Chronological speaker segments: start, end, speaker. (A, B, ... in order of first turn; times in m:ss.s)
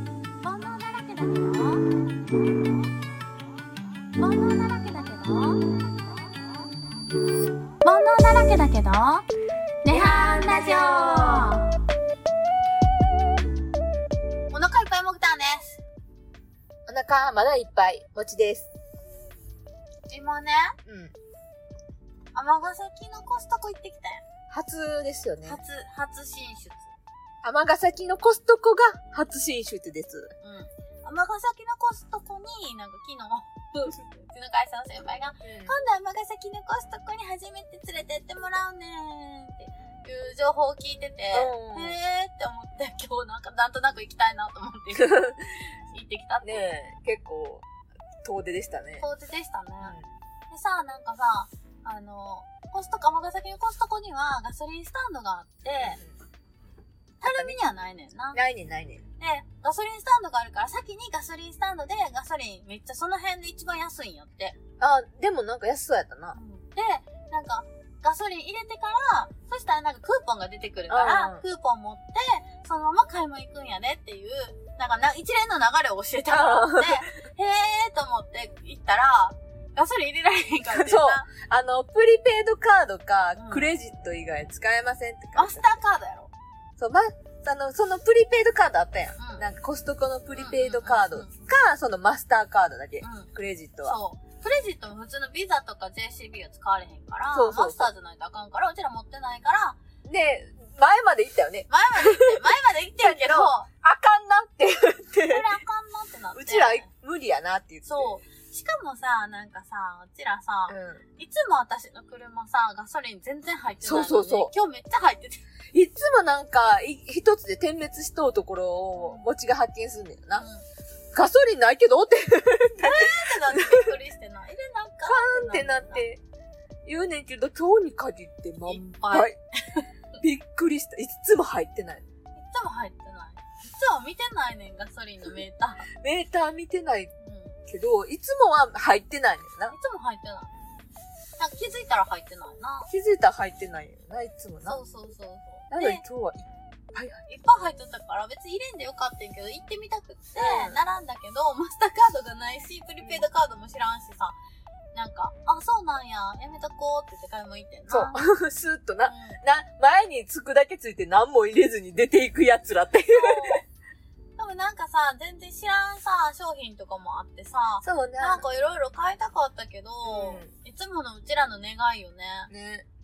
0:00.4-0:02.0 A
0:04.2-0:06.1 A
0:07.8-0:09.3 A
0:09.8-0:11.7 A
0:14.5-0:15.8 A
0:16.9-0:18.7 B
0:20.1-0:20.8 A
0:20.8-0:21.1 B
0:22.3-0:24.2 A
0:24.5-0:25.6 B
0:25.4-0:26.9 A
0:27.4-0:30.3 B
0:30.4-0:46.6 A
0:35.4-0:35.7 B
0:41.3-0:42.0 B
0:45.0-0:45.4 B
0:46.4-0:47.6 B
0:48.2-0:49.0 B
0:49.0-0:49.9 A
0:50.5-0:56.0 A
0:55.8-0:56.1 B
0:57.2-0:58.4 A
0:57.2-0:57.6 B
0:58.3-0:59.0 B
0:59.2-1:04.6 A
1:04.8-1:06.4 B
1:06.3-1:21.2 A
1:10.9-1:11.4 B
1:16.3-1:17.1 B
1:20.7-1:25.7 B
1:23.3-1:23.6 A
1:25.3-1:26.3 A
1:26.8-1:34.0 B
1:29.2-1:29.4 A
1:30.4-1:31.4 A
1:33.0-1:33.3 A
1:33.8-1:39.8 A
1:37.3-1:37.9 B
1:40.0-1:42.4 B
1:41.7-1:43.7 A
1:43.0-1:45.5 B
1:45.2-1:46.8 A
1:46.3-1:48.1 B
1:47.8-1:55.4 A
1:50.7-1:51.0 B
1:53.8-1:54.5 B
1:55.7-2:00.5 B
1:58.9-1:59.2 A
2:00.4-2:00.6 A
2:01.1-2:03.9 B
2:02.8-2:06.0 A
2:05.0-2:06.2 B
2:06.8-2:09.4 B
2:08.7-2:09.8 A
2:10.2-2:12.0 B
2:12.3-2:15.9 A
2:15.9-2:17.1 B
2:17.2-2:17.6 A
2:17.7-2:19.7 B
2:19.7-2:20.5 A
2:21.4-2:22.9 A
2:22.9-2:24.8 B
2:24.6-2:26.0 A
2:25.7-2:27.2 B
2:27.3-2:34.4 A
2:30.4-2:30.8 B
2:34.9-2:38.2 A
2:37.9-2:43.6 B
2:39.1-2:39.4 A
2:43.1-2:43.6 A
2:44.4-2:52.5 A
2:47.8-2:48.4 B
2:50.0-2:50.5 B
2:52.5-2:52.8 B